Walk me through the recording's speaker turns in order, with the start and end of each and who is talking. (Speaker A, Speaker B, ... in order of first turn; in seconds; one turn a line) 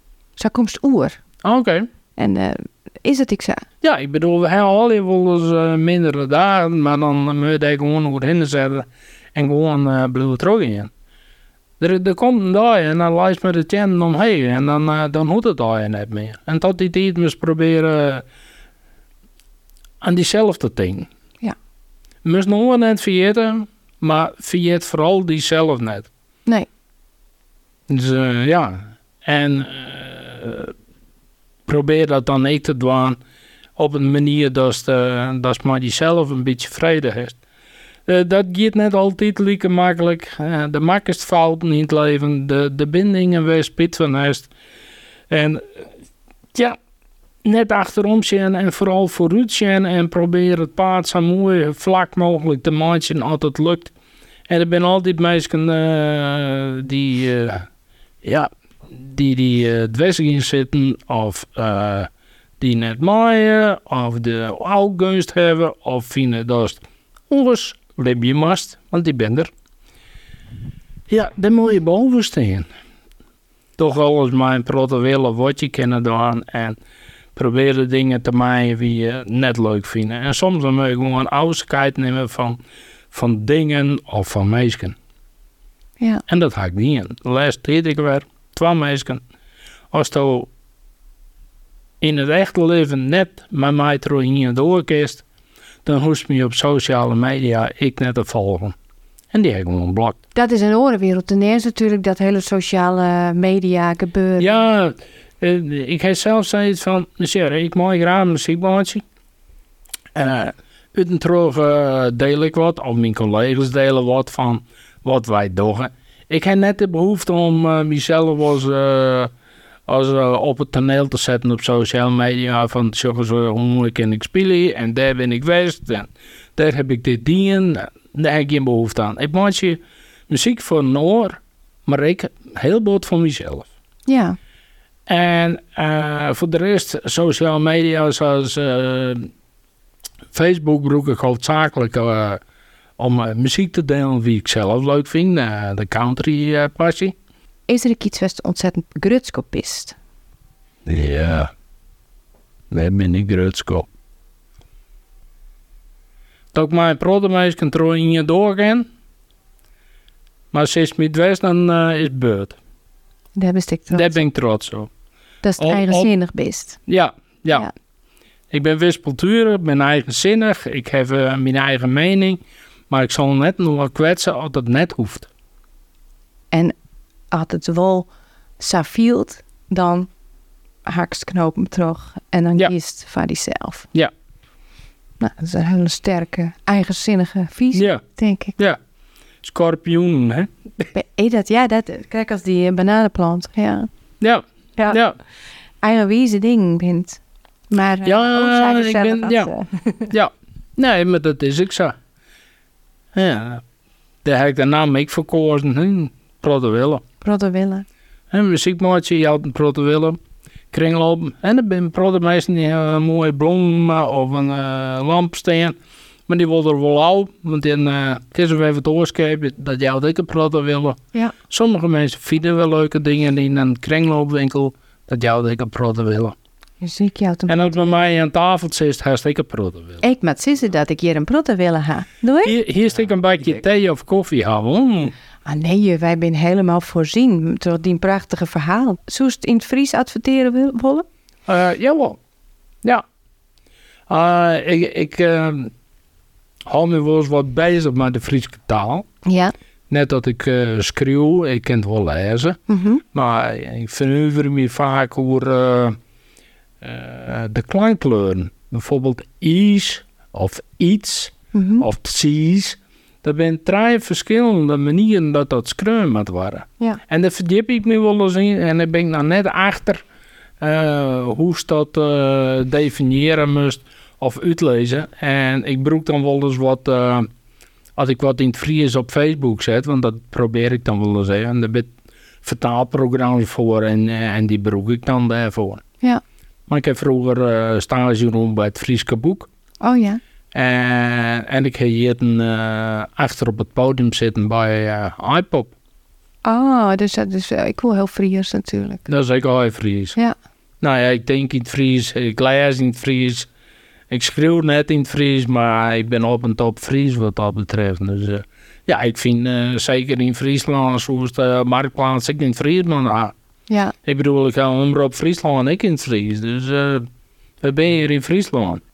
Speaker A: 0.4-1.2
Speaker B: 1.4-1.9
Speaker A: 2.2-3.6
Speaker B: 3.8-10.9
Speaker B: 11.8-18.2
Speaker B: 20.0-21.1
Speaker B: 22.2-26.1
Speaker B: 27.9-30.7
Speaker B: 31.7-33.2
Speaker B: 33.8-37.4
Speaker B: 38.1-44.5
Speaker B: 45.3-45.9
Speaker B: 47.4-53.9
Speaker B: 54.5-57.6
Speaker B: 58.2-62.1
Speaker B: 62.6-69.5
Speaker B: 71.1-72.7
Speaker B: 73.8-76.8
Speaker B: 77.3-82.6
Speaker B: 83.1-84.9
Speaker B: 86.3-89.2
Speaker B: 89.9-90.5
Speaker B: 92.0-95.2
Speaker B: 95.8-98.7
Speaker B: 99.3-100.2
Speaker A: 100.3-104.5
Speaker B: 104.4-109.0
Speaker B: 110.1-119.3
Speaker B: 119.9-133.7
Speaker A: 134.1-134.4
Speaker B: 135.1-139.3
Speaker B: 140.3-142.4
Speaker B: 143.0-147.1
Speaker A: 147.7-149.9
Speaker B: 150.8-151.5
Speaker B: 152.7-153.8
Speaker B: 156.5-158.9
Speaker B: 160.5-162.6
Speaker A: 163.3-164.2
Speaker B: 163.9-164.9
Speaker A: 165.4-166.8
Speaker B: 165.6-166.1
Speaker B: 166.9-167.7
Speaker B: 168.5-175.3
Speaker A: 177.3-178.1
Speaker A: 178.6-180.1
Speaker A: 180.8-183.9
Speaker A: 185.2-188.6
Speaker B: 187.7-188.0
Speaker B: 189.4-190.8
Speaker A: 190.9-193.9
Speaker B: 194.2-195.2
Speaker A: 195.8-200.1
Speaker B: 198.0-199.5
Speaker B: 200.1-201.9
Speaker B: 203.1-203.6
Speaker B: 204.2-207.0
Speaker A: 207.2-207.8
Speaker B: 208.3-210.2
Speaker B: 210.7-215.8
Speaker B: 216.3-221.0
Speaker B: 221.5-226.3
Speaker A: 226.8-228.0
Speaker B: 227.5-230.0
Speaker A: 230.0-232.5
Speaker B: 232.4-235.1
Speaker A: 235.4-241.1
Speaker B: 241.5-242.2
Speaker B: 244.1-245.7
Speaker B: 246.7-249.0
Speaker A: 249.2-249.5
Speaker B: 249.9-252.6
Speaker A: 252.7-253.0
Speaker B: 253.1-256.0
Speaker B: 256.8-270.0
Speaker A: 261.5-261.9
Speaker B: 270.6-277.3
Speaker B: 278.0-281.9
Speaker B: 282.4-285.8
Speaker B: 286.7-289.5
Speaker A: 289.8-290.2
Speaker B: 290.5-295.7
Speaker A: 296.4-299.0
Speaker B: 299.1-300.1
Speaker B: 300.8-303.5
Speaker B: 304.1-313.3
Speaker B: 314.1-317.1
Speaker B: 317.6-318.8